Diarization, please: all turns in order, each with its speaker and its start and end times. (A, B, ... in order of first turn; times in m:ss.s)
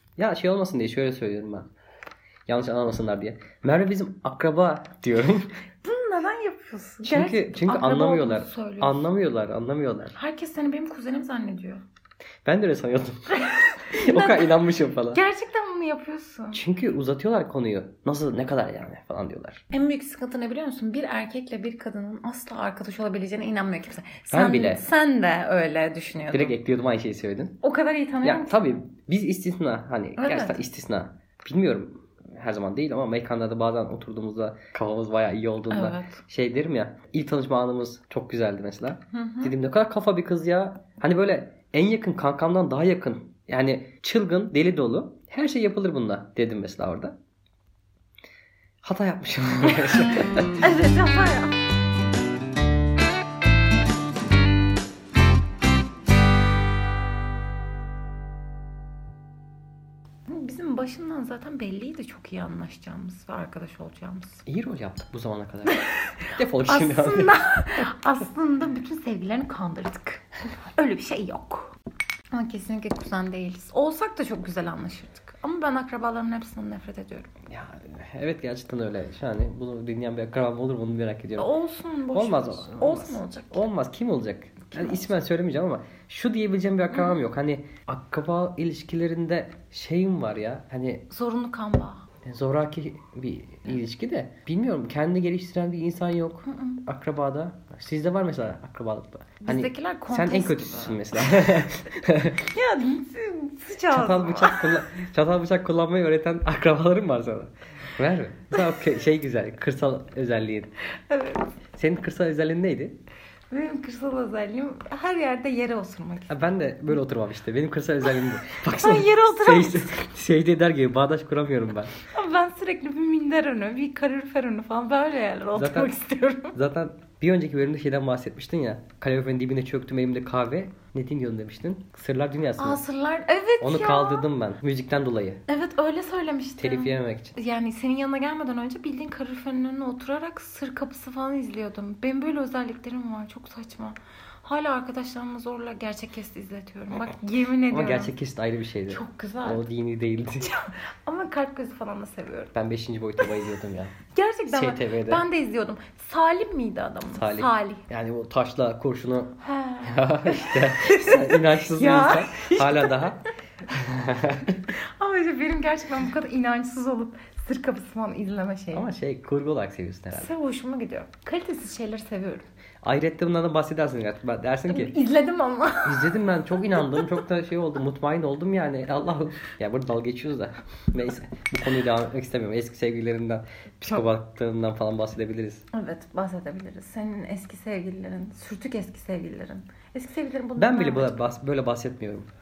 0:00.2-0:01.7 A
0:02.5-0:05.5 A
0:05.8-0:09.0 B
0:07.0-0:10.2 A
0:10.2-0:11.8 B
0:12.4-0:15.2 A
0:13.3-0:16.6 B
0:16.5-0:19.6 A
0:19.7-0:26.6 B
0:24.3-0:24.8 A
0:26.3-0:27.6 A
0:27.6-0:28.6 B
0:28.2-0:47.2 A
0:30.2-0:30.6 B
0:35.7-0:36.2 B
0:39.1-0:39.5 B
0:48.8-0:50.6 A
0:50.6-0:51.6 B
1:00.3-1:04.4 B
1:04.5-1:07.4 A
1:05.7-1:11.8 B
1:12.3-1:17.3 B
1:17.5-1:21.5 A
1:21.4-1:23.6 B
1:22.1-1:31.0 A
1:26.9-1:27.3 B
1:31.1-1:32.0 B
1:32.2-1:42.4 A
1:36.4-1:36.8 B
1:39.4-1:41.5 B
1:42.4-1:44.8 B
1:43.9-1:50.7 A
1:51.1-1:51.5 B
1:51.8-1:53.0 A
1:53.5-1:56.3 B
1:56.3-2:01.9 A
1:58.6-1:59.9 B
2:02.1-2:06.6 B
2:05.6-2:06.0 A
2:06.5-2:12.8 A
2:12.6-2:14.3 B
2:13.6-2:15.4 A
2:15.5-2:28.1 B
2:16.6-2:17.4 A
2:27.7-2:30.5 A
2:28.9-2:29.6 B
2:30.4-2:32.5 B
2:32.5-2:34.0 A
2:34.1-2:37.8 B
2:34.5-2:35.2 A
2:37.1-2:44.6 A
2:39.4-2:43.2 B
2:44.7-2:48.9 B
2:48.7-2:50.3 A
2:50.1-2:52.5 B
2:52.8-2:55.0 A
2:54.7-2:56.2 B
2:55.8-3:05.7 A
2:56.8-2:57.1 B
3:05.7-3:11.3 B
3:10.6-3:12.3 A